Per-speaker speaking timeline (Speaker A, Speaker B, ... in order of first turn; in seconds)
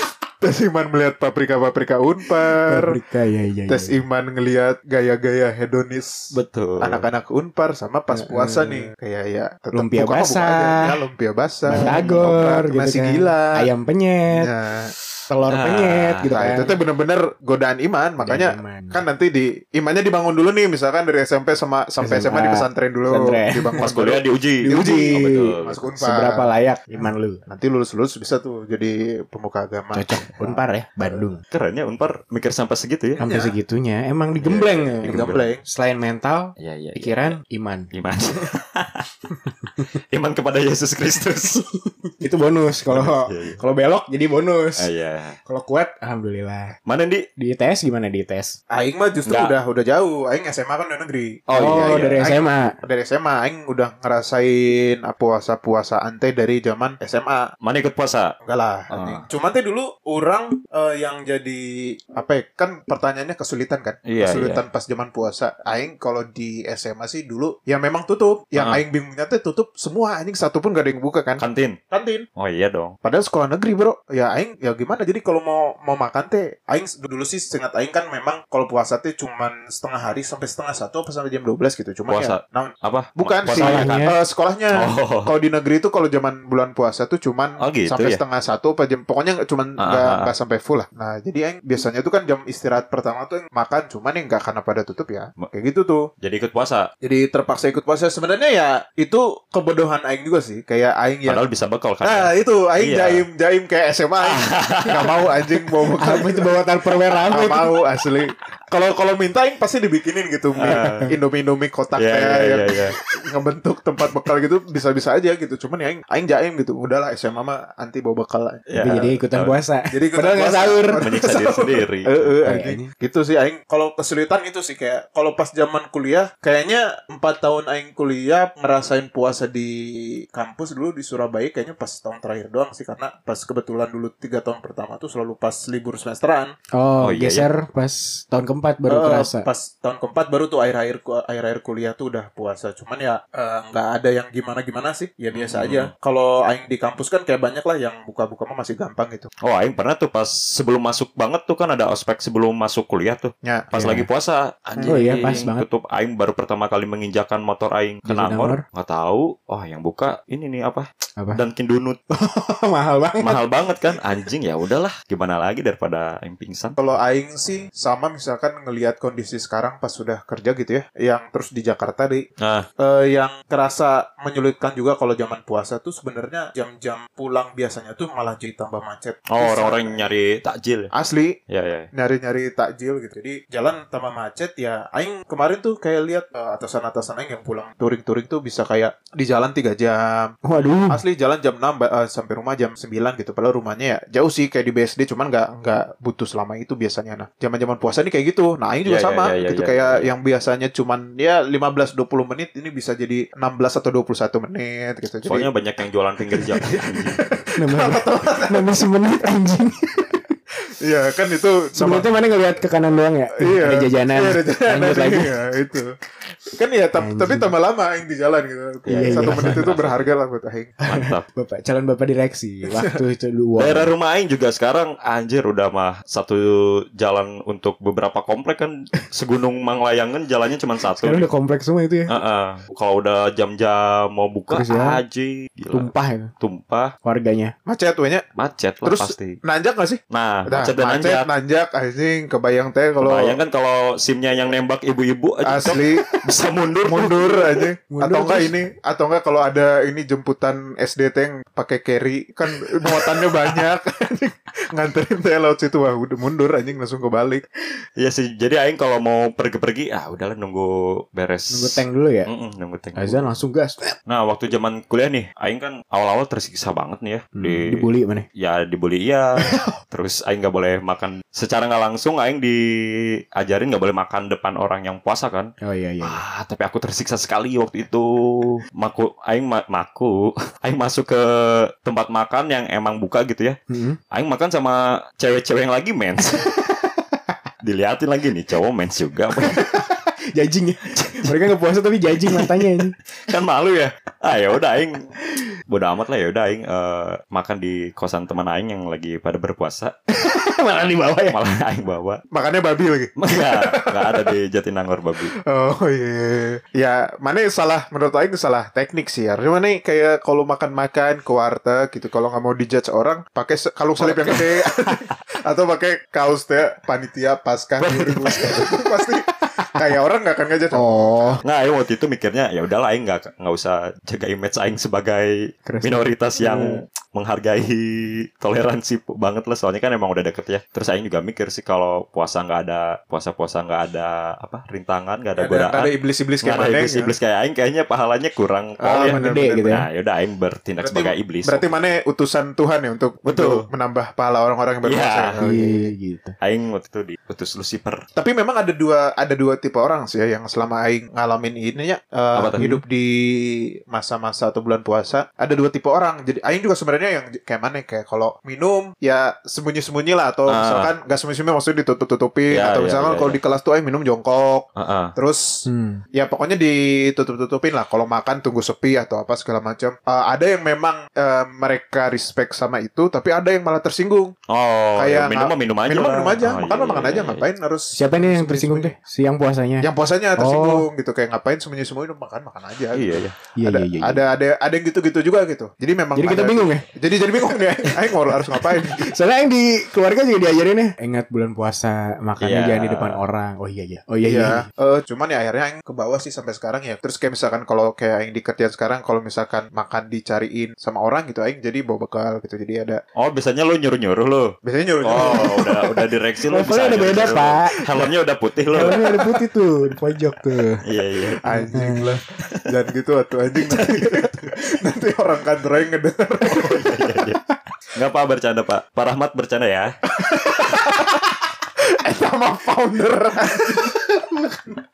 Speaker A: 0.4-2.9, 3.7-13.6, 14.3-14.9, 16.2-26.5, 27.4-30.6, 33.2-33.5, 35.0-35.6, 48.7-57.5, 58.5-72.2, 73.0-96.1, 97.0-101.4, 102.0-106.5, 107.2-119.1, 119.9-136.5, 138.9-149.3, 153.4-153.8, 166.8-172.3, 172.8-180.1, 180.9-181.4, 181.9-205.5, 206.3-208.8, 210.8-212.2, 213.4-216.0, 216.5-220.8, 237.7-238.2, 238.8-243.4, 245.4-246.2, 246.8-257.4, 302.3-304.3, 305.5-321.4, 335.4-337.1, 338.8-339.7, 340.8-345.9, 348.1-374.4, 375.0-378.9, 379.8-389.1, 394.2-403.0, 404.6-405.8, 411.4-416.8, 420.2-421.4, 422.0-424.1
Speaker B: 2.7-3.9, 8.1-8.9, 9.7-11.0, 11.7-14.5, 15.3-16.7, 18.2-19.0, 22.0-23.8, 24.6-27.4, 29.9-31.4, 33.2-37.9, 42.2-44.9, 45.5-46.8, 47.4-48.6, 51.5-52.8, 83.6-84.1, 105.9-107.7, 110.6-111.1, 118.8-121.0, 122.4-122.9, 136.7-139.5, 153.7-154.1, 154.8-155.7, 158.1-158.6, 161.2-161.4, 162.1-163.4, 190.4-191.0, 207.6-210.2, 211.8-215.4, 217.0-217.5, 218.9-219.6, 220.9-223.9, 230.9-232.1, 234.5-235.0, 235.7-236.3, 237.0-237.5, 247.9-248.5, 261.5-262.3, 263.0-263.9, 267.4-268.2, 275.6-276.2, 283.7-284.0, 289.4-292.9, 300.1-301.4, 320.7-321.4, 325.6-326.8, 339.0-339.9, 345.4-346.4, 365.6-366.0, 377.9-380.8, 383.6-384.2, 386.1-386.9, 387.6-387.9, 388.6-394.7, 405.1-405.7, 406.5-407.8, 408.7-410.8, 411.5-412.2, 423.9-424.6
Speaker C: 6.3-7.1, 11.7-12.3, 15.5-16.7, 23.8-25.9, 31.5-33.2, 34.4-35.5, 36.6-37.4, 37.9-39.1, 40.1-41.6, 42.9-43.6, 44.8-45.4, 46.9-47.2, 49.3-49.5, 51.5-52.2, 57.6-58.3, 58.9-59.2, 64.0-64.6, 68.5-68.8, 71.4-71.8, 72.3-73.0, 82.1-84.1, 84.7-85.3, 87.6-88.2, 89.8-90.3, 96.2-96.9, 101.2-103.3, 104.2-105.2, 110.5-111.1, 112.0-113.0, 118.7-119.6, 120.5-122.1, 137.0-137.5, 145.3-145.9, 149.4-162.0, 163.2-166.8, 172.4-172.7, 179.3-180.9, 181.5-181.9, 198.8-200.0, 205.3-207.2, 218.9-220.1, 220.9-221.2, 223.6-231.3, 232.1-236.9, 238.4-239.4, 240.1-241.3, 243.0-247.4, 258.0-263.3, 264.1-267.8, 268.3-275.5, 276.0-283.6, 284.1-286.5, 287.6-289.6, 290.9-291.4, 292.2-292.7, 293.3-295.1, 295.7-299.9, 301.3-302.2, 303.2-305.3, 314.0-314.4, 317.8-318.7, 321.4-341.6, 343.2-343.7, 344.8-345.4, 346.4-348.0, 352.3-352.6, 360.5-360.9, 362.5-363.4, 364.8-365.1, 374.5-377.5, 382.9-383.3, 392.4-393.2, 403.1-409.2, 410.8-411.4, 413.7-414.5, 416.4-417.4, 417.9-419.9